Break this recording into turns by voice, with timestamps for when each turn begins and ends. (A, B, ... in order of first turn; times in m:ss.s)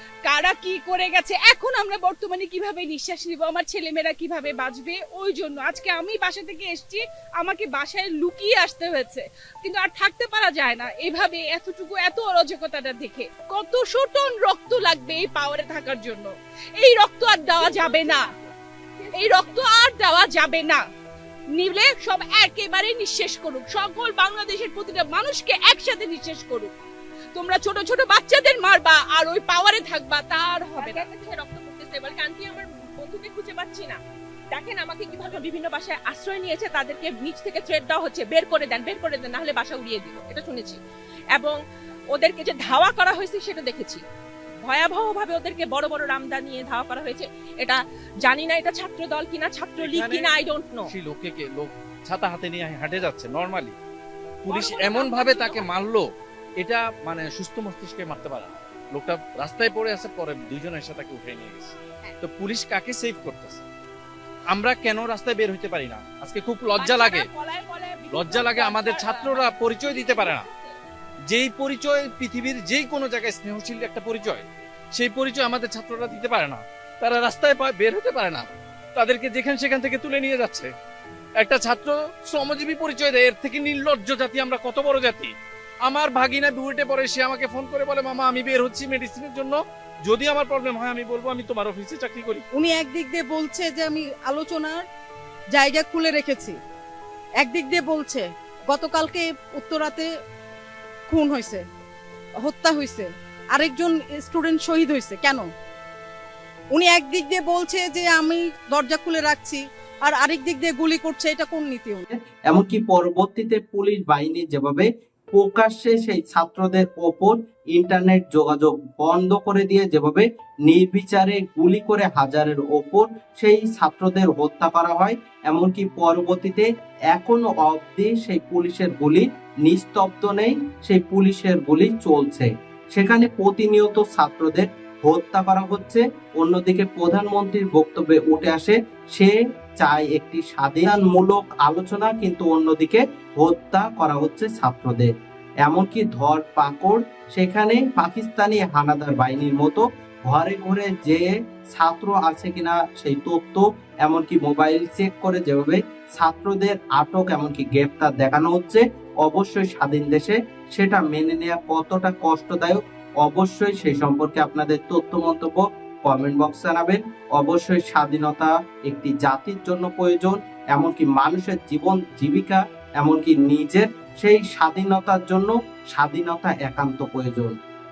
0:00.3-0:18.3 A
0:17.5-0:19.7 B
0:19.2-0:20.8 A
0:21.6-0:26.7 A
0:27.4-0:31.1 A
0:30.8-0:34.0 B
0:34.5-0:40.8 B
0:42.1-0:44.0 B
0:44.6-0:50.9 B
0:49.8-0:50.3 C
0:50.9-0:53.8 C
0:54.4-0:56.1 C
0:54.5-0:55.7 B
0:56.6-1:03.7 C
1:04.5-1:07.3 C
1:06.8-1:10.7 B
1:08.1-1:10.5 C
1:11.3-1:20.7 C
1:21.4-1:25.3 C
1:25.9-1:32.4 C
1:32.5-1:34.8 D
1:35.5-1:36.6 D
1:37.4-1:40.1 D
1:41.1-1:41.6 D
1:42.4-1:45.5 D
1:46.7-1:52.1 D
1:52.1-2:25.1 E
2:25.6-2:57.6 E